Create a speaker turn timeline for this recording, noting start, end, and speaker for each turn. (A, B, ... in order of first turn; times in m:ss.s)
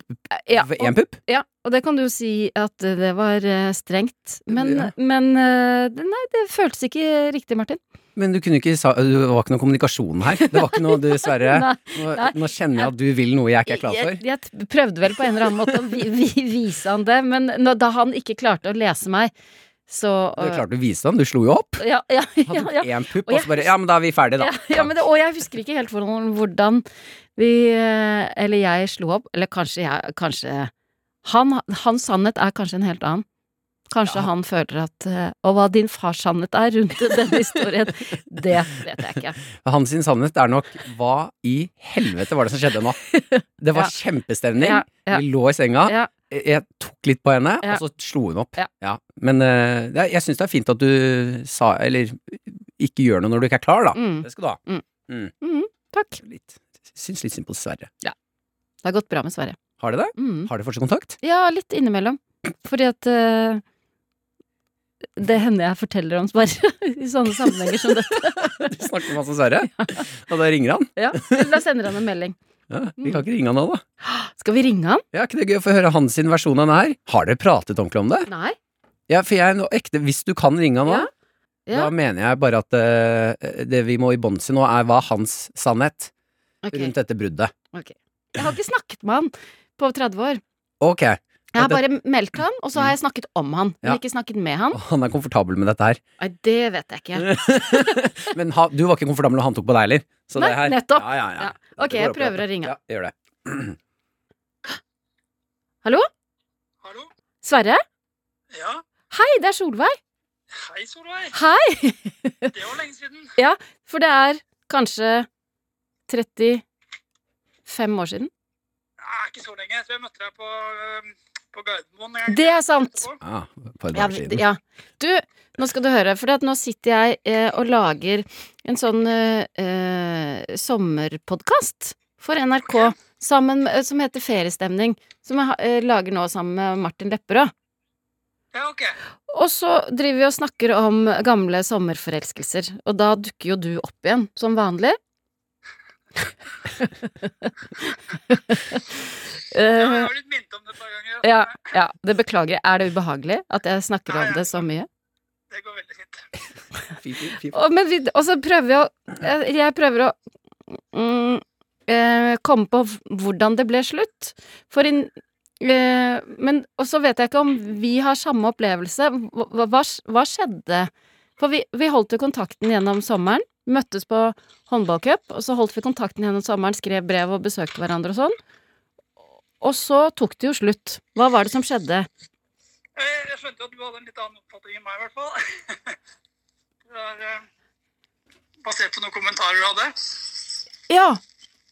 0:00.3-0:07.8 A
0:00.5-0:01.2 B
0:04.5-0:04.9 B
0:08.2-0:14.2 B
0:10.4-0:12.9 A
0:13.6-0:19.3 A
0:19.9-0:20.6 A
0:20.4-0:21.8 B
0:21.8-0:23.7 A
0:22.4-0:25.0 B
0:24.4-0:26.8 A
0:27.4-0:30.7 A
0:31.2-0:33.2 A
0:33.9-0:39.4 A
0:39.6-0:43.0 B
0:43.1-0:43.9 A
0:43.6-0:55.3 B
0:44.6-0:45.2 A
0:53.9-0:54.8 A
0:55.4-0:56.2 A
0:56.2-0:57.9 B
0:58.8-0:59.6 A
0:59.8-1:01.2 B
1:00.2-1:00.5 A
1:01.2-1:03.6 A
1:05.2-1:08.8 A
1:07.9-1:11.6 B
1:09.8-1:10.0 A
1:11.0-1:12.4 A
1:12.7-1:13.8 B
1:14.0-1:15.0 A
1:15.1-1:18.3 B
1:18.3-1:18.6 A
1:19.1-1:21.1 B
1:21.7-1:26.1 B
1:26.6-1:26.9 A
1:26.7-1:27.5 B
1:27.7-1:30.4 A
1:30.8-1:31.8 B
1:31.5-1:34.8 A
1:34.7-1:36.0 B
1:36.2-1:38.0 A
1:37.2-1:43.8 B
1:40.4-1:42.7 A
1:46.8-1:47.1 C
1:47.4-1:47.8 A
1:48.5-1:48.8 C
1:49.1-1:50.0 A
1:50.6-1:51.3 C
1:51.3-1:52.5 A
1:52.5-1:53.3 C
1:53.4-1:55.3 A
1:56.1-1:56.6 A
1:57.7-1:58.3 A
1:59.0-2:03.2 C
2:02.3-2:03.1 A
2:03.2-2:04.4 B
2:03.9-2:17.5 A
2:18.5-2:18.9 C
2:19.3-2:25.0 A
2:26.8-2:30.1 A
2:29.6-2:31.5 C
2:31.2-2:34.9 A
2:34.1-2:34.7 C
2:35.5-2:36.3 C
2:37.0-2:37.6 B
2:37.5-2:40.1 A
2:40.9-2:58.4 A
2:59.6-3:02.1 A
3:03.0-3:06.0 C
3:06.9-3:07.4 C
3:08.6-3:10.3 C
3:10.9-3:11.2 A